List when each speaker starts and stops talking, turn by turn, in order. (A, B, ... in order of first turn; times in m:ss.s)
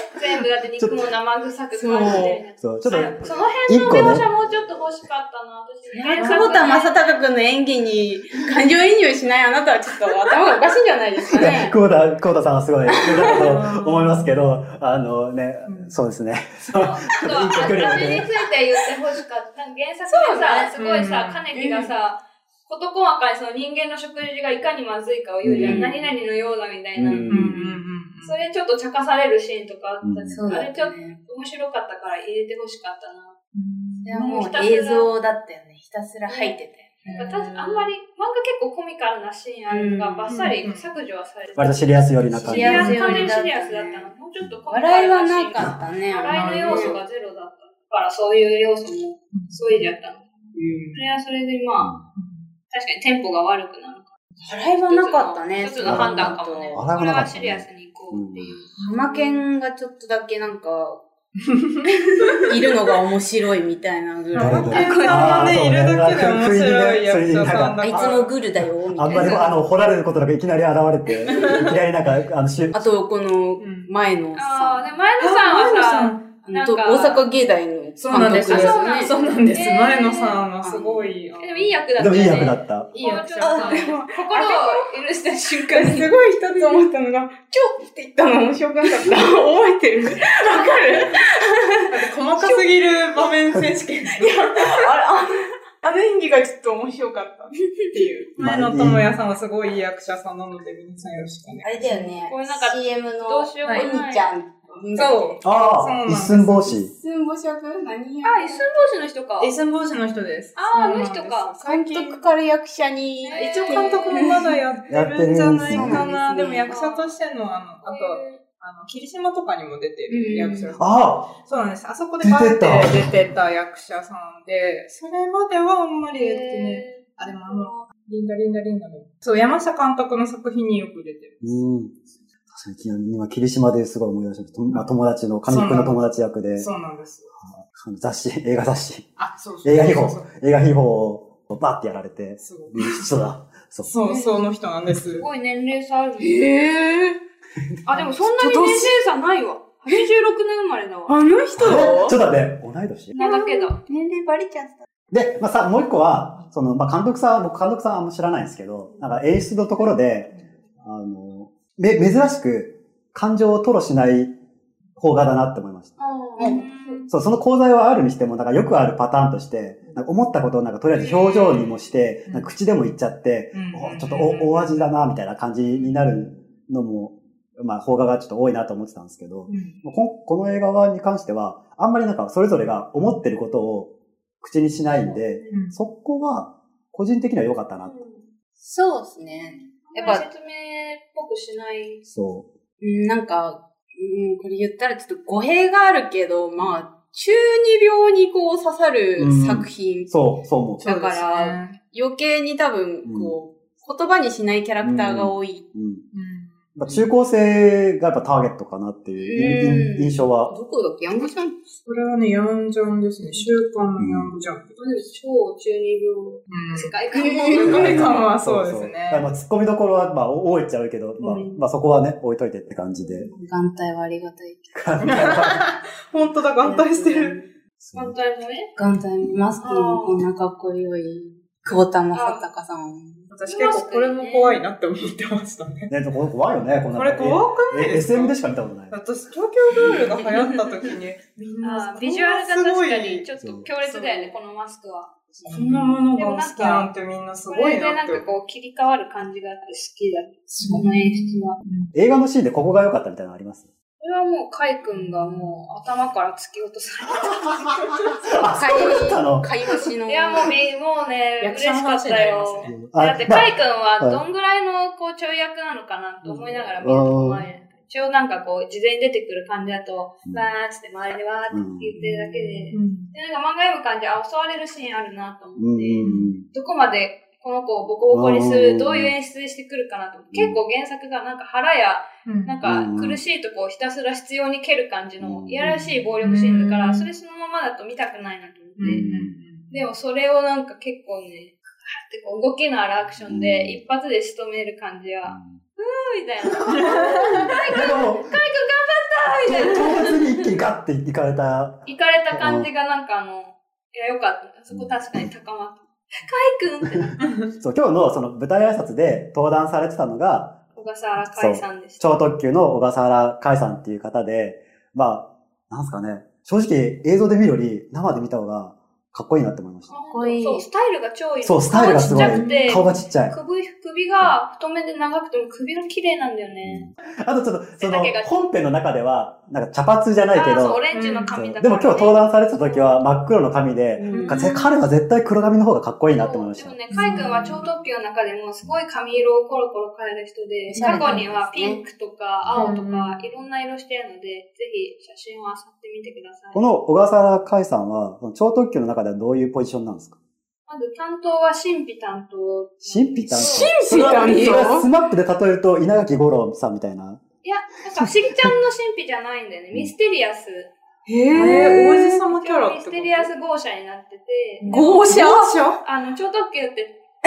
0:00.1-0:07.2 A
0:00.8-0:01.1 B
0:01.7-0:02.4 C
0:02.6-0:04.7 B
0:05.9-0:06.8 D
0:06.0-0:11.8 C
0:11.3-0:18.3 B
0:13.0-0:13.5 C
0:13.2-0:14.4 D
0:15.7-0:16.0 D
0:16.7-0:27.5 A
0:17.8-0:18.2 C
0:20.1-0:20.8 C
0:20.8-0:21.5 D
0:21.5-0:21.9 C
0:25.4-0:25.9 B
0:25.6-0:26.1 C
0:27.0-0:27.6 B
0:27.1-0:27.6 C
0:27.3-0:28.4 D
0:28.2-0:33.4 A
0:30.0-0:30.4 B
0:30.3-0:31.2 C
0:33.5-0:34.5 D
0:34.0-0:37.9 C
0:34.2-0:35.1 A
0:36.3-0:36.6 A
0:37.1-0:37.3 D
0:37.1-0:50.3 A
0:39.7-0:40.4 C
0:40.3-0:40.9 D
0:41.6-0:43.0 B
0:42.3-0:44.1 C
0:42.7-0:43.4 D
0:44.7-0:47.0 C
0:46.3-0:47.0 D
0:49.3-0:49.9 D
0:50.6-0:51.0 C
0:51.0-0:52.0 A
0:52.2-0:52.4 D
0:52.7-0:58.7 A
0:54.4-0:56.9 C
0:55.8-0:58.6 B
0:58.8-0:59.4 D
0:58.8-1:01.0 C
1:01.5-1:03.0 D
1:01.8-1:05.2 C
1:04.3-1:08.4 D
1:04.4-1:08.3 B
1:04.7-1:05.6 A
1:07.8-1:09.6 C
1:08.9-1:12.8 B
1:11.3-1:11.7 D
1:12.7-1:14.9 C
1:13.6-1:13.9 D
1:14.4-1:17.3 A
1:15.2-1:16.2 D
1:16.4-1:19.2 C
1:18.0-1:21.8 D
1:18.3-1:20.4 A
1:20.6-1:21.2 C
1:21.4-1:26.2 A
1:22.0-1:23.0 B
1:22.9-1:23.9 D
1:23.4-1:25.0 C
1:25.7-1:32.7 C
1:26.5-1:26.8 D
1:31.9-1:34.9 D
1:34.1-1:38.3 C
1:38.4-1:42.0 D
1:38.4-1:39.1 B
1:41.6-1:45.4 C
1:42.2-1:44.3 A
1:45.0-1:46.7 D
1:45.4-1:46.9 B
1:46.7-1:48.6 C
1:48.2-1:49.6 A
1:49.4-1:52.2 D
1:50.6-1:51.5 A
1:51.6-1:54.6 C
1:53.3-1:54.3 A
1:53.3-2:11.4 D
1:54.9-1:56.1 B
1:55.7-1:56.7 C
1:56.7-1:57.2 A
1:57.8-1:58.4 A
2:00.1-2:00.8 C
2:00.8-2:01.4 B
2:02.2-2:03.0 B
2:06.1-2:07.9 A
2:11.4-2:12.0 B
2:12.5-2:16.7 B
2:15.5-2:16.0 D
2:16.6-2:17.4 D
2:17.5-2:19.1 B
2:19.2-2:20.3 D
2:19.6-2:23.9 B
2:22.4-2:23.0 D
2:23.8-2:25.3 D
2:24.0-2:24.4 C
2:25.2-2:26.5 A
2:26.2-2:27.2 C
2:27.8-2:31.2 A
2:28.3-2:29.0 C
2:31.1-2:32.2 C
2:31.6-2:33.2 B
2:33.2-2:34.9 C
2:33.2-2:33.8 A
2:35.1-2:44.4 B
2:45.0-2:45.9 B
2:46.0-2:47.1 A
2:46.4-2:46.6 C
2:46.4-2:47.1 D
2:47.1-3:08.0 B
2:51.0-2:51.6 A
2:53.5-2:54.8 D
2:59.5-2:59.8 D
3:04.9-3:05.6 A
3:05.5-3:05.8 D
3:07.8-3:08.3 A
3:08.6-3:10.2 C
3:09.8-3:12.0 A
3:12.1-3:12.5 B
3:12.8-3:20.1 C
3:19.2-3:20.8 B
3:20.8-3:25.7 C
3:20.8-3:21.8 D
3:23.0-3:23.4 B
3:24.8-3:26.0 B
3:26.1-3:27.1 D
3:26.8-3:30.5 B
3:29.2-3:31.7 C
3:31.8-3:34.6 D
3:34.0-3:34.3 B
3:34.8-3:38.2 A
3:36.5-3:36.9 D
3:37.1-3:37.9 C
3:37.4-3:39.3 D
3:37.7-3:43.3 B
3:43.3-3:44.7 C
3:44.7-3:45.7 B
3:45.0-3:47.4 D
3:46.6-3:47.5 C
3:47.8-3:48.2 B
3:48.0-3:48.7 A
3:48.8-3:53.3 C
3:49.6-3:50.0 D
3:49.7-3:50.1 A
3:52.1-3:52.5 A
3:53.3-3:55.9 D
3:53.5-3:54.6 A
3:55.9-3:59.0 B
3:57.0-3:58.4 D
3:58.9-4:03.2 D
3:59.8-4:00.3 C
4:01.6-4:06.9 A
4:03.4-4:03.7 B
4:03.8-4:04.3 D
4:05.4-4:05.9 C
4:05.5-4:08.3 D
4:07.5-4:11.6 A
4:10.6-4:11.9 D
4:11.9-4:13.7 B
4:14.0-4:18.0 A
4:14.9-4:15.6 D
4:17.1-4:19.5 B
4:18.5-4:20.6 C
4:20.1-4:49.1 A
4:21.4-4:22.8 D
4:22.6-4:24.2 B
4:26.2-4:27.4 B
4:31.5-4:32.6 B
4:32.7-4:33.1 D
4:35.6-4:36.5 B
4:36.0-4:36.3 D
4:38.1-4:39.1 B
4:40.3-4:40.6 B
4:42.2-4:42.6 D
4:42.6-4:43.2 B
4:45.2-4:45.8 B
4:46.2-4:47.1 D
4:48.8-4:49.7 D
4:48.8-4:49.4 B
4:49.7-5:00.4 A
4:53.2-4:53.8 B
4:55.2-4:55.6 B
4:56.5-4:58.4 B
4:56.7-4:57.5 D
4:59.4-5:02.7 B
5:01.9-5:07.3 A
5:04.7-5:05.3 B
5:06.9-5:10.6 B
5:07.2-5:07.5 D
5:10.8-5:12.2 A
5:11.4-5:20.0 B
5:19.9-5:26.9 A
5:20.1-5:20.6 C
5:21.4-5:23.4 B
5:22.0-5:23.0 D
5:26.6-5:30.8 B
5:27.8-5:28.4 A
5:30.3-5:33.0 A
5:30.9-5:31.4 D
5:31.3-5:36.8 B
5:34.0-5:34.7 C
5:34.1-5:34.6 D
5:36.1-5:46.6 A
5:36.9-5:37.7 D
5:37.0-5:37.5 C
5:40.7-5:41.8 C
5:40.8-5:41.2 D
5:42.6-5:43.3 D
5:46.5-5:50.2 B
5:50.7-5:54.4 A
5:52.9-5:57.2 B
5:53.4-5:54.9 C
5:57.4-6:00.7 A
5:58.0-5:58.5 B
6:01.1-6:02.2 C
6:01.3-6:01.7 B
6:01.3-6:03.3 D
6:02.4-6:07.0 A
6:04.6-6:05.2 D
6:04.7-6:05.8 C